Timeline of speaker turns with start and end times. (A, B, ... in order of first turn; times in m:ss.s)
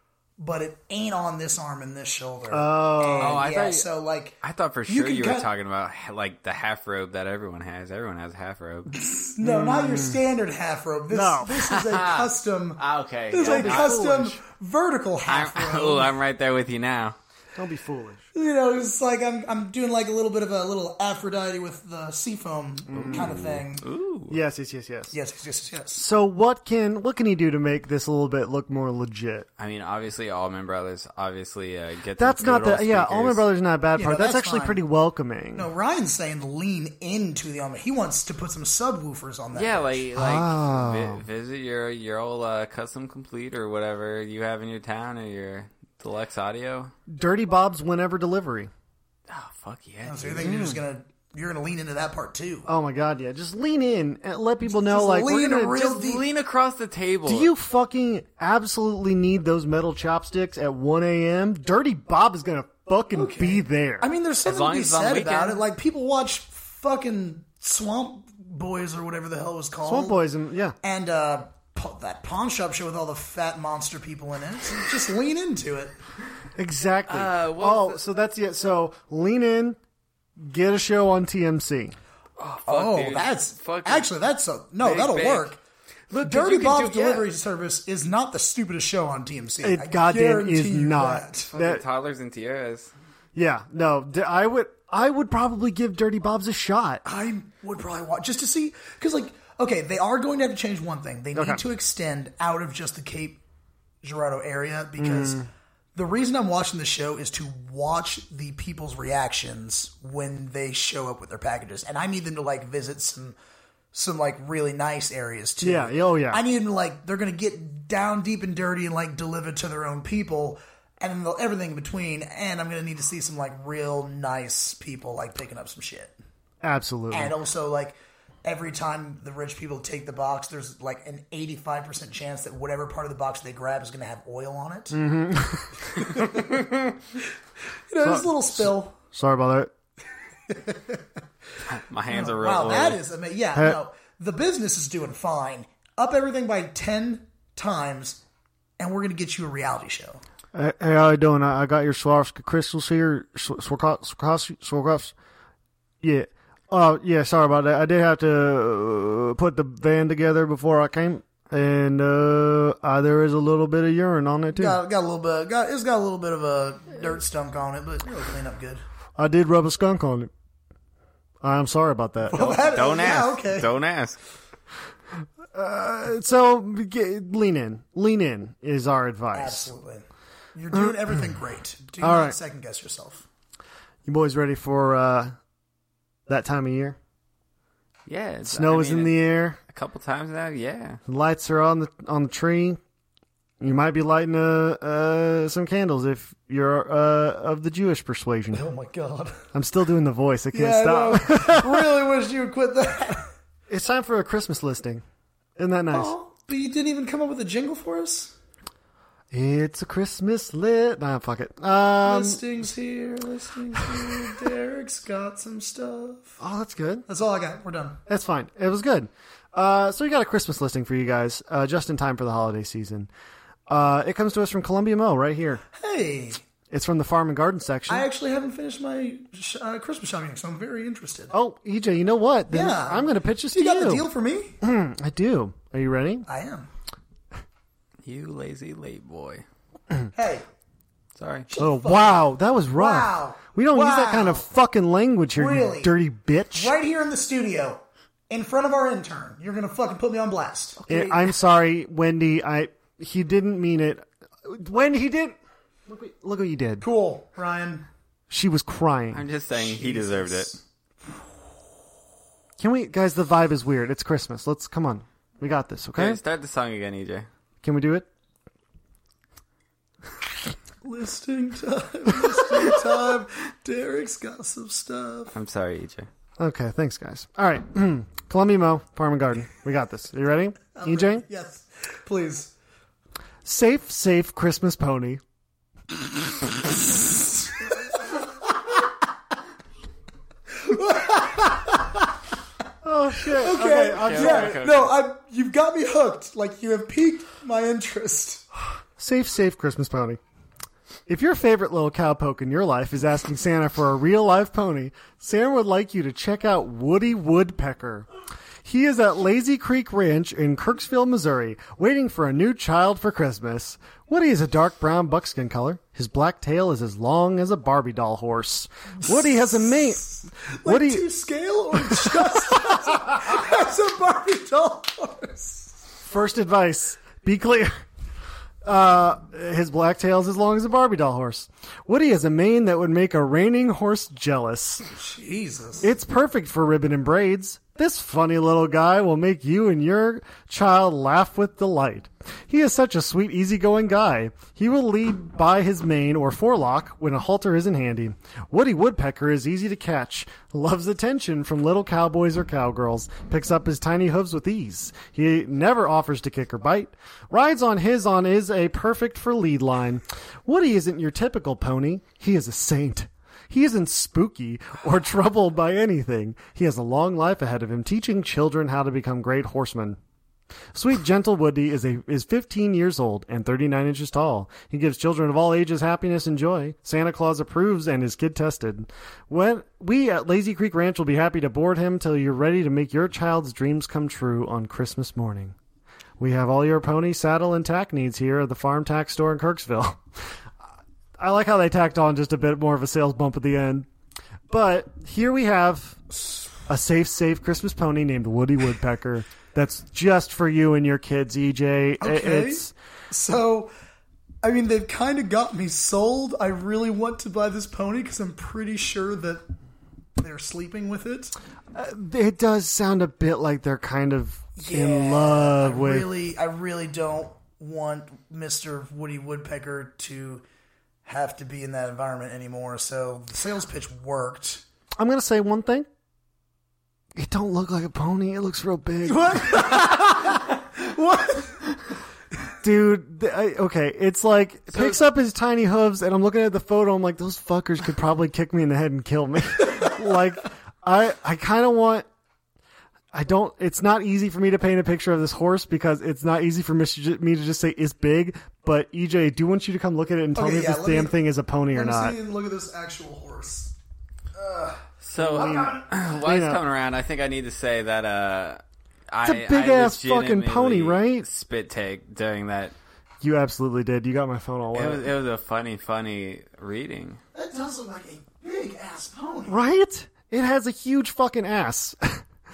0:00.4-0:05.5 A
0:02.5-0:03.4 B
0:03.2-0:03.9 C
0:04.4-0:08.9 C
0:08.9-0:16.1 A
0:09.4-0:10.2 B
0:11.1-0:11.6 B
0:11.5-0:14.0 C
0:13.4-0:14.4 B
0:15.3-0:17.2 C
0:17.6-0:18.2 B
0:18.3-0:23.8 A
0:22.9-0:23.4 B
0:22.9-0:24.4 C
0:24.3-0:25.1 B
0:25.1-0:26.0 A
0:26.0-0:29.5 B
0:29.6-0:33.4 C
0:32.2-0:35.7 B
0:34.0-0:34.8 A
0:35.5-0:40.0 A
0:39.5-0:46.9 C
0:40.1-0:41.2 B
0:47.1-0:48.7 B
0:49.3-0:50.7 C
0:50.1-0:52.7 A
0:50.4-0:50.8 B
0:52.7-0:55.9 B
0:54.6-0:56.2 A
0:55.7-0:57.5 C
0:57.2-1:04.1 B
1:03.1-1:10.2 A
1:04.4-1:05.6 C
1:09.8-1:10.8 B
1:10.8-1:16.0 A
1:16.6-1:19.8 B
1:17.1-1:18.0 C
1:20.4-1:22.0 B
1:22.4-1:24.1 C
1:22.7-1:25.6 A
1:24.8-1:25.5 C
1:26.1-1:27.3 C
1:26.2-1:31.5 A
1:29.6-1:31.8 B
1:31.5-1:32.9 C
1:33.3-1:37.0 B
1:37.0-1:43.4 A
1:41.3-1:41.6 B
1:44.0-1:53.3 A
1:45.0-1:45.5 B
1:53.9-2:06.1 A
1:55.6-1:56.4 B
2:06.6-2:07.3 B
2:07.1-2:15.0 A
2:14.9-2:16.0 B
2:16.0-2:16.7 A
2:17.9-2:18.9 A
2:18.0-2:19.7 B
2:20.5-2:21.0 A
2:21.7-2:23.0 C
2:22.1-2:28.2 A
2:28.8-2:30.2 A
2:30.5-2:35.1 B
2:36.0-2:44.8 B
2:44.5-2:48.8 A
2:49.2-2:50.3 B
2:51.4-2:52.8 B
2:52.2-2:53.7 A
2:52.6-2:54.2 C
2:55.5-2:59.7 B
2:59.3-3:03.2 A
3:02.0-3:02.4 B
3:04.0-3:05.4 B
3:06.3-3:07.0 B
3:08.1-3:11.0 C
3:08.5-3:09.6 B
3:11.1-3:12.8 B
3:13.6-3:18.6 B
3:18.5-3:19.4 A
3:19.5-3:21.9 B
3:20.5-3:23.3 A
3:23.7-3:25.0 B
3:25.6-3:26.1 B
3:25.9-3:28.3 A
3:29.3-3:32.4 B
3:32.0-3:36.4 A
3:36.4-3:37.0 B
3:37.1-3:38.0 A
3:38.1-3:43.1 B
3:43.7-3:45.6 B
3:45.7-3:46.4 A
3:46.7-3:48.1 B
3:47.9-3:51.3 A
3:51.3-3:54.0 B
3:52.5-3:54.6 A
3:54.6-3:56.3 B
3:56.3-3:56.7 A
3:58.0-3:59.4 C
4:00.1-4:00.4 A
4:01.2-4:01.5 C
4:01.5-4:04.4 A
4:01.6-4:06.7 B
4:05.3-4:05.9 A
4:06.5-4:11.3 A
4:10.9-4:16.8 B
4:16.8-4:17.9 A
4:18.3-4:19.2 B
4:19.1-4:20.6 C
4:19.5-4:20.6 A
4:22.6-4:26.2 B
4:25.9-4:27.3 C
4:27.6-4:28.1 B
4:30.8-4:35.3 A
4:35.3-4:36.1 C
4:36.4-4:41.2 B
4:40.7-4:42.5 A
4:43.4-4:45.2 B
4:50.5-4:52.1 A
4:52.8-4:54.6 B
4:53.2-4:58.4 A
4:53.8-4:54.9 C
4:59.0-5:00.2 B
5:01.1-5:08.1 B
5:08.6-5:21.0 B
5:19.0-5:25.7 A
5:21.9-5:22.6 B
5:26.0-5:27.7 B
5:28.6-5:34.8 B
5:34.9-5:35.9 A
5:35.8-6:10.0 B
6:10.7-6:25.6 B
6:26.2-6:30.4 B
6:31.2-6:33.9 B
6:34.5-6:36.0 B
6:36.7-6:42.7 B
6:42.0-6:43.7 A
6:44.4-6:49.4 A
6:50.2-6:51.3 A
6:51.7-6:56.1 B
6:54.6-7:00.4 A
7:01.0-7:04.6 A
7:05.0-7:05.9 B
7:07.1-7:09.8 B
7:09.0-7:11.7 A
7:12.6-7:22.0 B
7:23.1-7:32.2 B
7:30.3-7:31.1 A
7:31.7-7:33.7 A
7:34.4-7:34.8 A
7:35.0-7:42.7 C
7:35.2-7:36.6 B
7:39.2-7:41.2 B
7:43.2-7:45.1 B
7:44.7-7:47.2 C
7:47.3-7:49.6 A
7:49.5-7:52.2 B